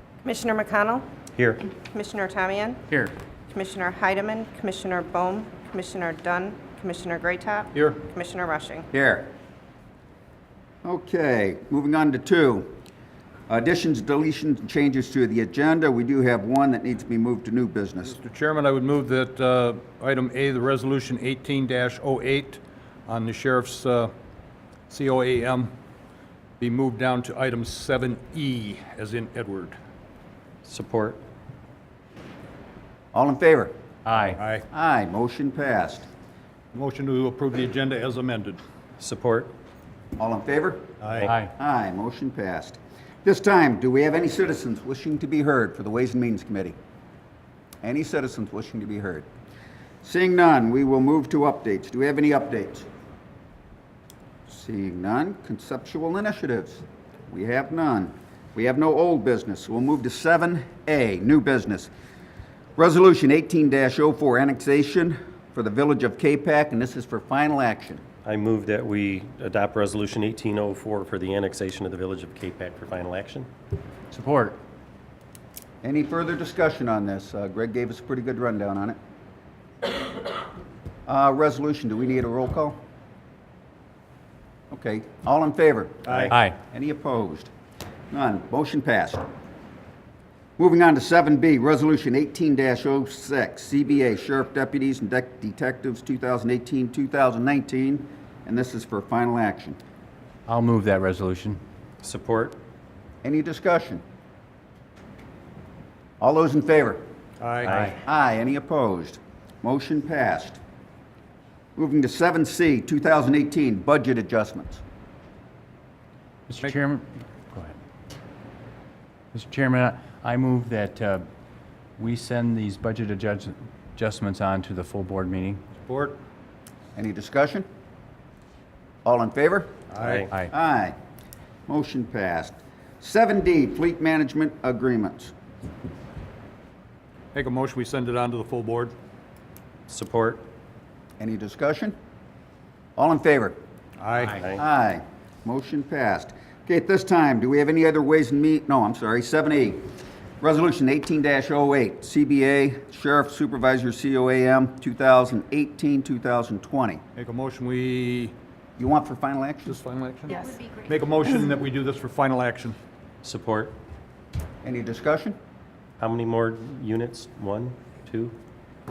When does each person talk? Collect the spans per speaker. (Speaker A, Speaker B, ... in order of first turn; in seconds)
Speaker A: 0.2-1.1, 1.8-2.8, 3.5-8.9
Speaker B: 1.4-1.7, 30.6-31.2, 39.0-39.5, 68.2-73.5, 102.0-102.6, 130.0-130.3, 139.9-140.4, 144.3-144.6, 163.2-163.8, 166.0-168.3
Speaker C: 7.7-8.0, 18.1-24.1, 24.9-25.7, 26.6-29.8, 34.3-34.6, 36.7-38.6, 41.0-41.3, 107.4-107.8, 125.8-126.2, 129.9-130.3, 137.3-138.9, 144.0-144.4, 157.2-158.3, 159.7-162.8
Speaker D: 8.9-9.3, 10.8-12.7, 13.5-18.2, 33.1-33.7, 34.7-36.1, 40.2-46.8, 47.8-49.3, 50.0-52.9, 54.5-61.9, 62.8-68.0, 75.8-79.0, 81.1-82.8, 84.7-87.5, 88.1-89.2, 90.6-99.8, 103.2-104.0, 106.2-107.0, 107.8-110.6, 111.8-114.8, 126.9-127.7, 129.0-129.8, 130.5-130.9, 131.7-135.3, 141.2-141.9, 143.0-143.6, 144.5-149.8, 150.4-157.0, 158.8-159.8, 164.6-165.3
Speaker E: 34.0-34.4, 74.1-74.6, 86.3-86.6, 100.5-101.6, 116.5-117.7, 119.3-121.2, 122.0-125.6